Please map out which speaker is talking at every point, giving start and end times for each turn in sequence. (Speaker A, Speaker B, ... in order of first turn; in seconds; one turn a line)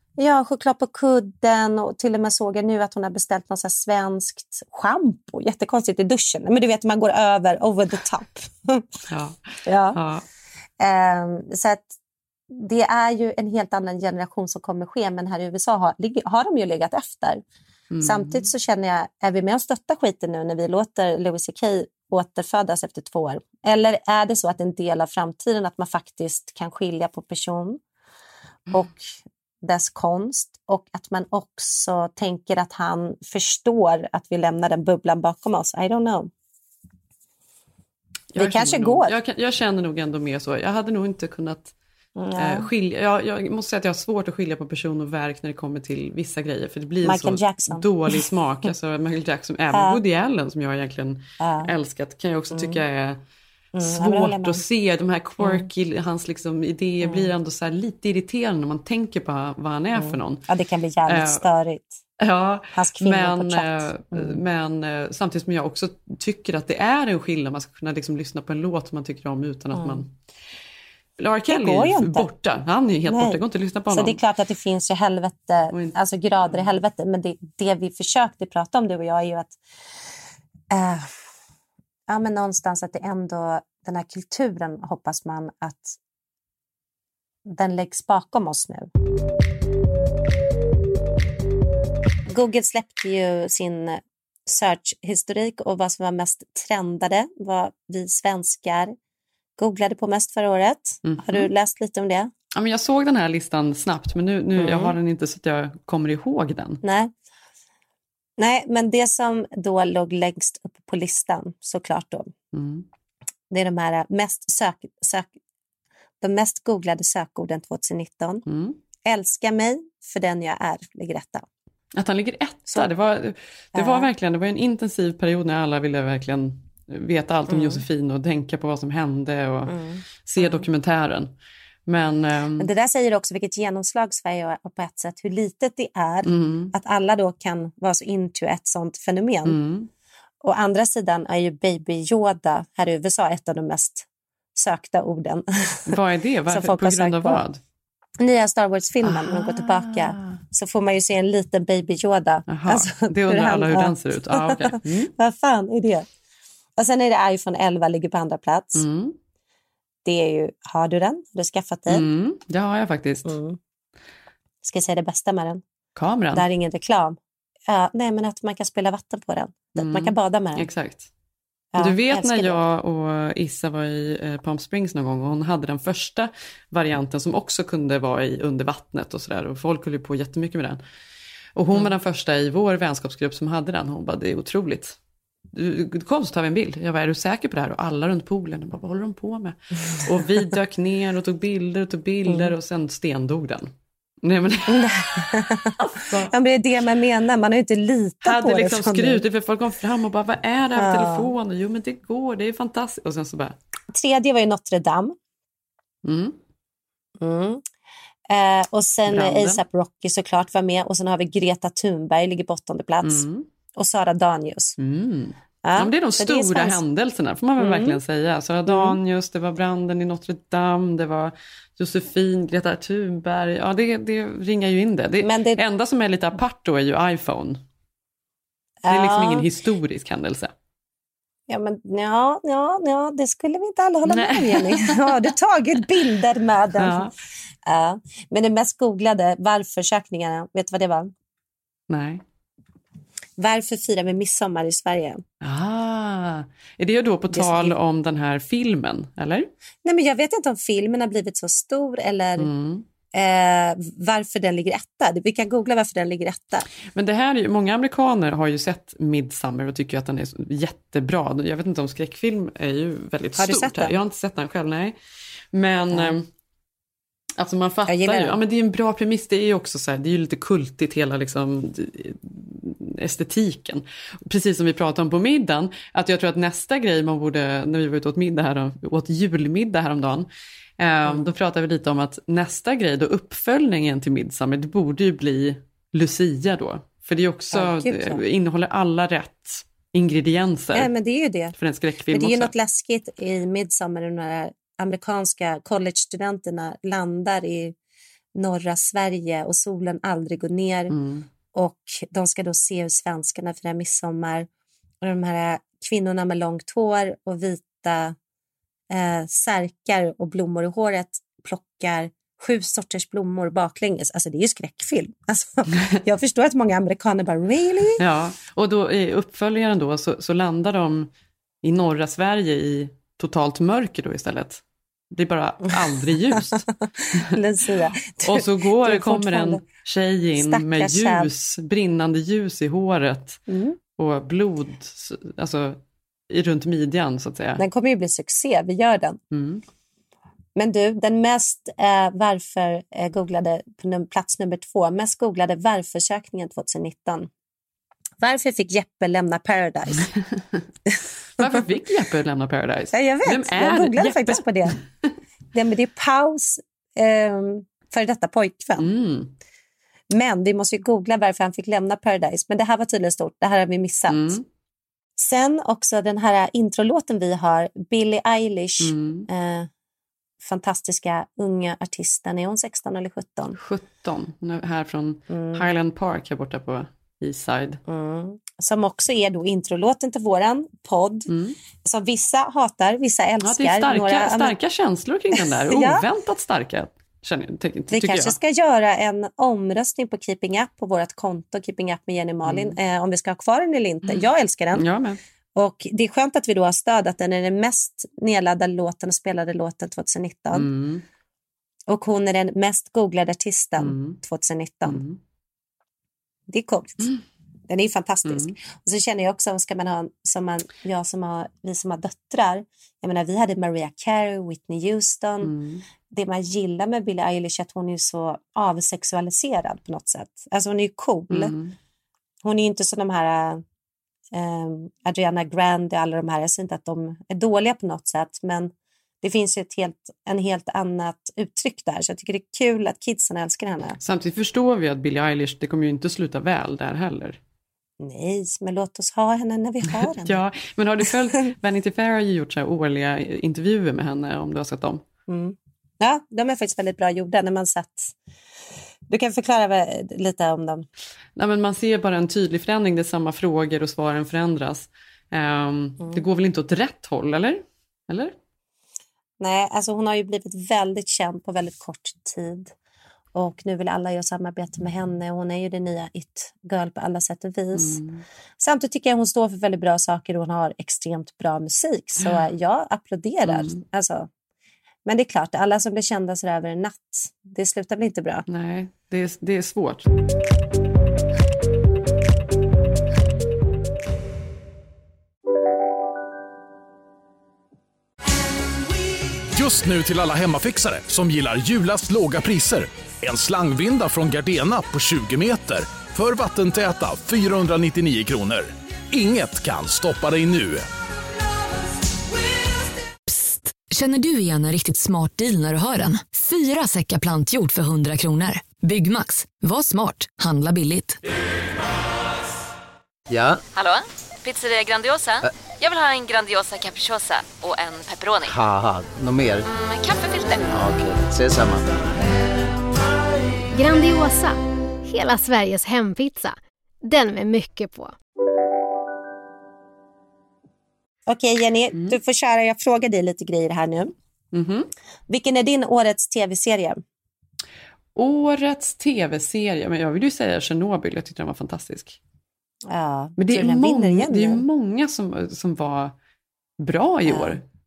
Speaker A: 0.2-8.9
Speaker B: 9.1-9.4
Speaker A: 9.7-10.0
Speaker B: 9.9-10.2
Speaker A: 10.8-11.9
Speaker A: 12.5-17.4
Speaker B: 17.9-18.5
Speaker A: 18.0-27.8
Speaker A: 28.7-36.3
Speaker B: 38.3-41.7
Speaker A: 38.4-39.1
Speaker A: 42.2-42.7
Speaker B: 42.4-53.2
Speaker A: 47.0-48.2
Speaker A: 49.7-50.0
Speaker A: 51.4-51.7
Speaker A: 52.5-52.8
Speaker A: 53.8-54.6
Speaker B: 53.8-60.5
Speaker A: 55.4-55.7
Speaker A: 57.0-57.3
Speaker A: 60.0-62.0
Speaker B: 61.1-61.4
Speaker B: 62.2-70.1
Speaker A: 62.8-64.4
Speaker A: 69.7-70.0
Speaker B: 71.2-74.2
Speaker A: 71.5-72.3
Speaker A: 73.1-79.6
Speaker B: 75.7-76.7
Speaker A: 80.7-81.1
Speaker A: 82.1-86.0
Speaker A: 87.5-88.9
Speaker A: 92.3-99.0
Speaker A: 99.6-102.3
Speaker B: 101.0-101.5
Speaker B: 102.5-106.8
Speaker A: 104.6-105.0
Speaker A: 106.8-107.1
Speaker A: 108.4-112.3
Speaker B: 112.5-112.9
Speaker A: 113.5-115.3
Speaker A: 116.2-118.5
Speaker B: 118.5-118.8
Speaker A: 119.0-121.5
Speaker B: 122.0-129.7
Speaker A: 123.8-124.1
Speaker A: 127.5-127.8
Speaker A: 129.7-130.7
Speaker B: 130.2-131.3
Speaker B: 131.9-132.7
Speaker A: 132.6-139.6
Speaker B: 136.2-136.7
Speaker B: 139.4-139.9
Speaker A: 140.4-145.9
Speaker B: 145.9-147.6
Speaker A: 146.5-147.4
Speaker A: 148.2-156.1
Speaker B: 149.0-150.4
Speaker B: 152.5-155.1
Speaker A: 156.8-158.8
Speaker B: 158.8-159.2
Speaker A: 160.1-162.1
Speaker B: 161.9-163.4
Speaker A: 163.2-163.6
Speaker A: 164.6-165.6
Speaker B: 166.0-166.5
Speaker A: 166.3-170.7
Speaker B: 169.8-171.1
Speaker A: 171.7-172.6
Speaker B: 171.8-180.8
Speaker B: 181.6-185.0
Speaker B: 185.5-193.7
Speaker A: 192.3-192.5
Speaker B: 194.2-196.3
Speaker A: 194.7-195.8
Speaker A: 196.3-199.2
Speaker B: 198.2-203.6
Speaker A: 200.7-201.3
Speaker A: 203.9-205.2
Speaker B: 206.1-206.4
Speaker A: 207.2-207.6
Speaker A: 208.3-214.8
Speaker B: 209.1-209.6
Speaker B: 213.0-213.5
Speaker B: 214.8-227.6
Speaker A: 215.6-216.8
Speaker A: 217.6-218.0
Speaker A: 218.7-219.0
Speaker A: 225.2-225.6
Speaker A: 228.8-229.5
Speaker B: 228.9-230.5
Speaker A: 231.5-237.1
Speaker B: 234.1-235.1
Speaker B: 236.8-237.1
Speaker A: 237.7-241.1
Speaker B: 241.9-242.2
Speaker A: 243.4-245.2
Speaker B: 245.4-249.5
Speaker A: 247.3-247.7
Speaker A: 249.8-252.5
Speaker B: 252.4-252.8
Speaker A: 253.1-256.7
Speaker B: 256.9-264.9
Speaker A: 263.4-264.0
Speaker B: 265.5-266.3
Speaker B: 267.4-290.9
Speaker A: 267.9-268.4
Speaker A: 287.5-288.2
Speaker A: 290.7-291.6
Speaker B: 291.6-292.5
Speaker A: 292.1-297.8
Speaker A: 298.4-300.9
Speaker B: 300.9-301.3
Speaker A: 301.5-304.5
Speaker A: 305.0-308.2
Speaker A: 308.9-318.0
Speaker B: 318.0-321.1
Speaker B: 321.6-327.3
Speaker A: 327.2-329.6
Speaker B: 328.2-333.4
Speaker A: 330.4-331.3
Speaker A: 333.5-333.8
Speaker B: 334.0-335.8
Speaker B: 336.3-337.6
Speaker A: 337.6-339.2
Speaker B: 339.3-339.6
Speaker A: 340.6-347.3
Speaker A: 348.2-350.1
Speaker B: 351.4-354.8
Speaker A: 352.9-354.8
Speaker A: 355.5-358.9
Speaker B: 358.8-359.3
Speaker A: 360.1-364.4
Speaker B: 364.1-364.4
Speaker A: 365.2-369.7
Speaker B: 368.8-369.3
Speaker A: 370.4-373.6
Speaker B: 373.6-377.8
Speaker A: 375.3-375.7
Speaker A: 377.9-381.3
Speaker B: 381.3-381.6
Speaker A: 381.8-384.6
Speaker B: 383.4-388.4
Speaker A: 385.4-386.1
Speaker A: 387.9-394.9
Speaker B: 392.4-392.8
Speaker B: 394.8-395.2
Speaker A: 395.6-400.7
Speaker B: 400.5-401.0
Speaker A: 401.9-405.0
Speaker B: 403.8-404.2
Speaker B: 404.9-405.2
Speaker A: 406.5-407.1
Speaker A: 407.7-415.5
Speaker B: 408.3-408.6
Speaker B: 415.4-415.9
Speaker A: 416.1-421.5
Speaker B: 421.3-421.8
Speaker A: 422.4-423.6
Speaker A: 424.3-434.0
Speaker B: 434.0-437.4
Speaker A: 438.0-440.4
Speaker B: 440.0-445.0
Speaker A: 445.3-448.1
Speaker A: 449.1-450.9
Speaker B: 451.4-458.4
Speaker A: 459.4-462.7
Speaker A: 463.3-468.0
Speaker B: 467.7-468.2
Speaker A: 468.6-474.3
Speaker B: 473.5-473.8
Speaker A: 475.1-478.4
Speaker B: 478.5-480.1
Speaker C: 489.5-500.9
Speaker D: 503.3-511.2
Speaker E: 513.3-513.6
Speaker F: 513.7-518.5
Speaker E: 518.5-519.6
Speaker F: 519.6-520.8
Speaker E: 520.7-522.0
Speaker G: 523.7-528.1
Speaker A: 531.3-534.1
Speaker B: 534.5-534.9
Speaker A: 535.3-537.0
Speaker B: 538.2-542.2
Speaker A: 542.9-544.6
Speaker B: 543.4-546.1
Speaker B: 546.8-547.6
Speaker A: 547.3-547.6